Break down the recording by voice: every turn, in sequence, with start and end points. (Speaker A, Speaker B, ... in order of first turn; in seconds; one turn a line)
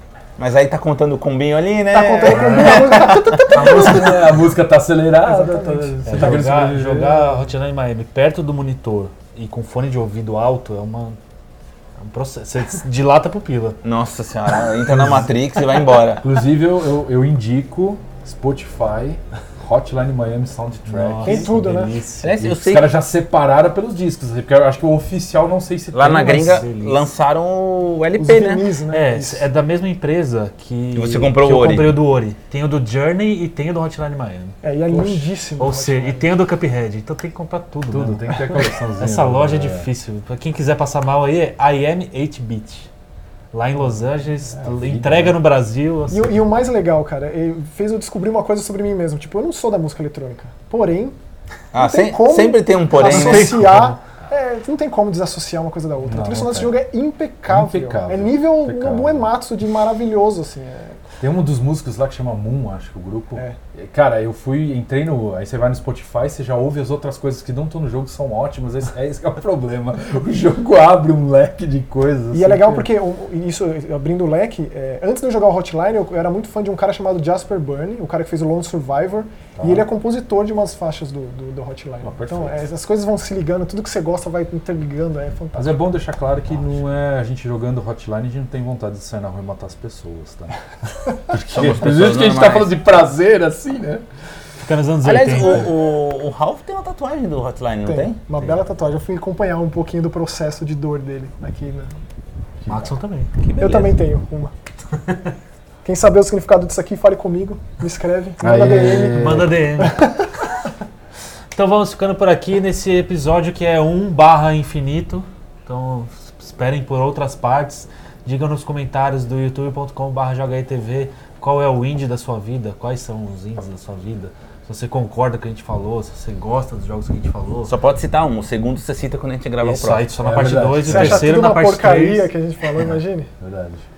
Speaker A: 0.4-3.6
Speaker B: 1.9-4.4
Speaker C: 2.3-2.9
Speaker C: 3.5-4.1
Speaker D: 3.5-7.5
Speaker B: 5.2-6.4
Speaker C: 6.0-11.2
Speaker C: 12.0-13.8
Speaker A: 13.8-16.2
Speaker D: 14.9-15.3
Speaker D: 16.2-21.5
Speaker C: 20.9-22.4
Speaker B: 21.2-22.0
Speaker A: 22.2-22.9
Speaker D: 22.4-26.6
Speaker A: 25.9-28.7
Speaker C: 26.3-27.0
Speaker B: 28.2-29.5
Speaker C: 28.9-34.6
Speaker A: 30.9-32.0
Speaker B: 34.6-36.3
Speaker D: 34.9-35.3
Speaker C: 35.6-42.9
Speaker D: 37.9-39.9
Speaker C: 43.5-46.4
Speaker D: 44.5-45.4
Speaker B: 46.1-51.2
Speaker A: 51.7-53.7
Speaker B: 51.8-61.0
Speaker C: 53.0-54.0
Speaker D: 56.0-56.8
Speaker D: 57.5-59.3
Speaker D: 61.2-72.9
Speaker B: 72.3-85.8
Speaker D: 79.6-79.9
Speaker D: 82.0-82.7
Speaker D: 85.6-94.0
Speaker A: 91.5-92.8
Speaker C: 94.6-95.7
Speaker A: 95.0-98.2
Speaker B: 97.9-101.9
Speaker D: 102.6-102.9
Speaker C: 102.7-103.3
Speaker A: 103.4-104.0
Speaker B: 103.6-104.5
Speaker B: 105.8-110.3
Speaker D: 108.4-109.6
Speaker C: 109.0-110.0
Speaker C: 111.5-127.7
Speaker A: 127.7-130.1
Speaker C: 129.6-132.3
Speaker D: 130.2-131.4
Speaker B: 130.8-133.3
Speaker D: 133.4-133.8